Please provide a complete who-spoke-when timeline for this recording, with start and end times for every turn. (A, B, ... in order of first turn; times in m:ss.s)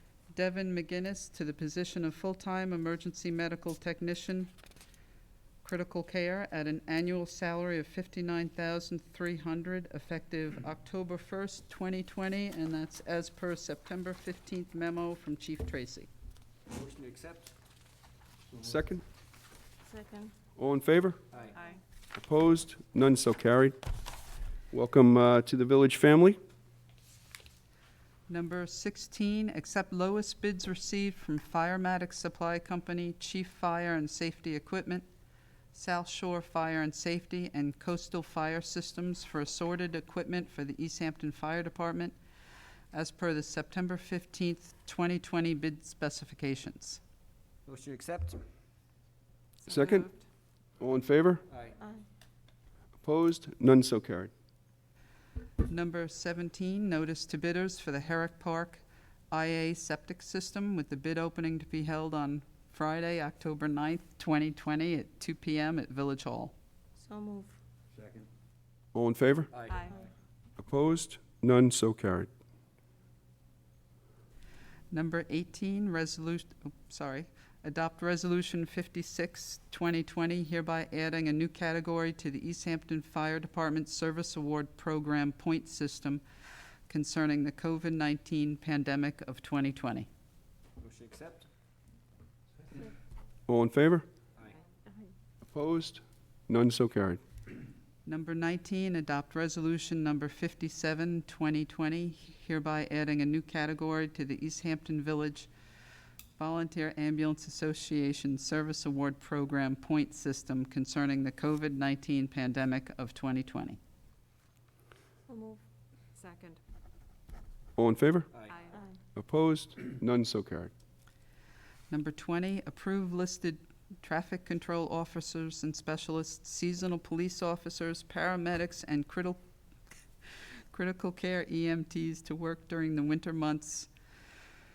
0:00.3-0:04.5 A
0:05.6-0:16.1 A
0:16.7-0:17.5 B
0:18.6-0:19.0 C
0:19.8-0:20.3 D
0:20.6-0:21.2 C
0:21.3-0:21.6 B
0:21.6-0:21.8 D
0:22.2-0:23.8 C
0:24.7-0:26.4 C
0:28.3-0:35.1 A
0:35.7-0:42.2 A
0:42.9-0:47.0 A
0:47.7-0:48.5 B
0:49.7-0:50.1 C
0:49.7-0:50.1 D
0:50.8-0:51.4 C
0:51.5-0:51.8 B
0:51.8-0:52.0 D
0:53.0-0:54.3 C
0:55.6-1:06.5 A
1:07.0-1:07.6 D
1:08.0-1:08.2 B
1:08.9-1:09.5 C
1:09.5-1:09.9 B
1:10.6-1:12.3 C
1:14.9-1:26.2 A
1:26.9-1:30.1 A
1:30.8-1:31.5 B
1:33.5-1:34.0 C
1:34.9-1:35.1 D
1:35.5-1:37.2 C
1:38.1-1:45.5 A
1:46.4-1:53.8 A
1:55.3-1:55.6 D
1:56.2-1:56.6 D
1:57.8-1:58.3 C
1:58.3-1:58.6 B
1:58.5-1:59.0 D
1:59.2-2:00.7 C
2:01.9-2:09.4 A
2:10.7-2:13.9 A